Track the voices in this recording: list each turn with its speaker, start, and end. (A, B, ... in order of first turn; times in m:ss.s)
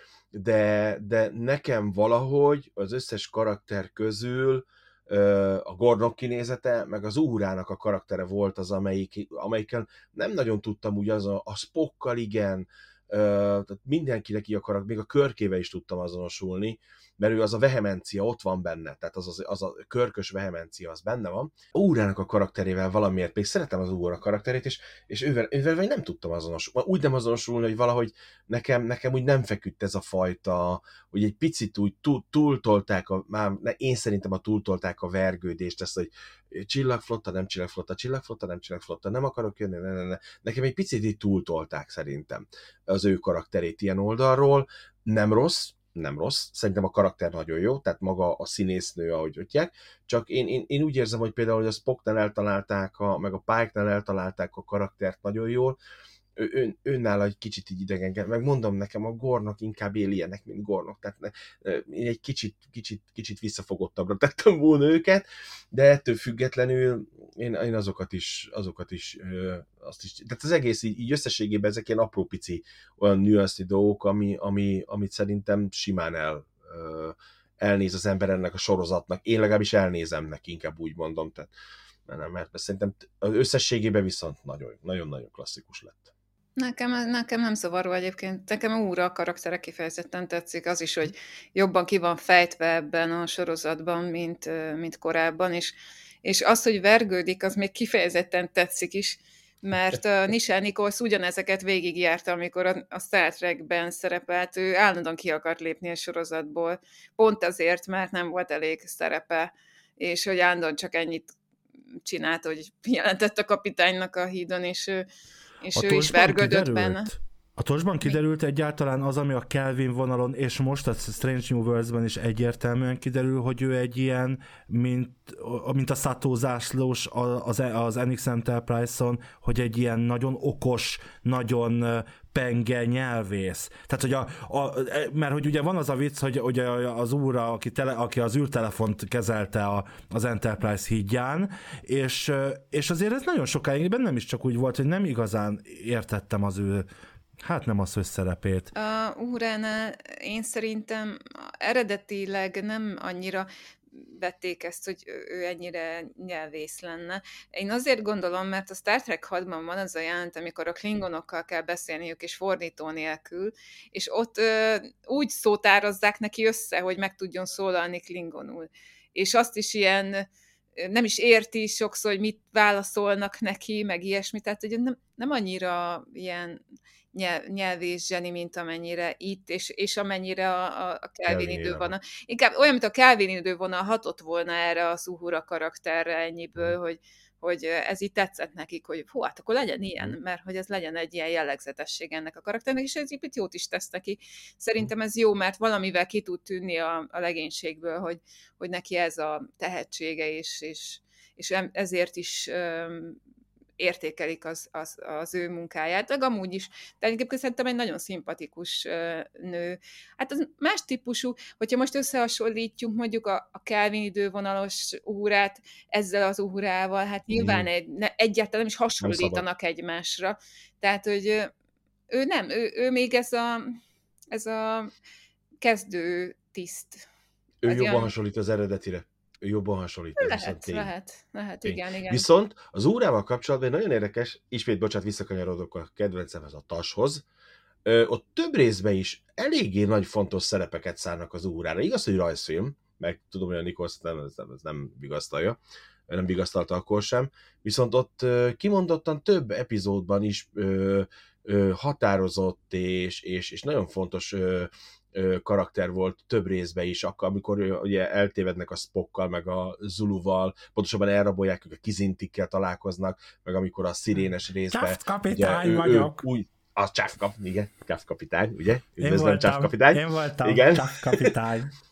0:00.3-0:55.8 A
0:56.4-1:21.5 A
1:22.1-1:26.1 A
1:26.6-1:51.3 B
1:52.0-1:55.0 B
1:55.6-1:57.1 B
1:55.7-2:26.9 C
2:27.4-2:28.7 C
2:28.7-2:56.6 B
2:57.1-3:23.2 B
3:01.2-3:01.9 A
3:23.8-3:41.5 B
3:37.3-3:37.7 A
3:39.0-3:39.4 A
3:42.1-3:43.8 B
3:44.3-3:44.9 B
3:45.6-3:47.0 B
3:47.6-3:50.9 A
3:47.6-3:48.1 B
3:50.2-3:52.3 B
3:51.6-3:57.2 A
3:57.8-4:05.6 A
4:06.1-4:31.3 A
4:24.2-4:26.2 C
4:29.0-4:31.7 C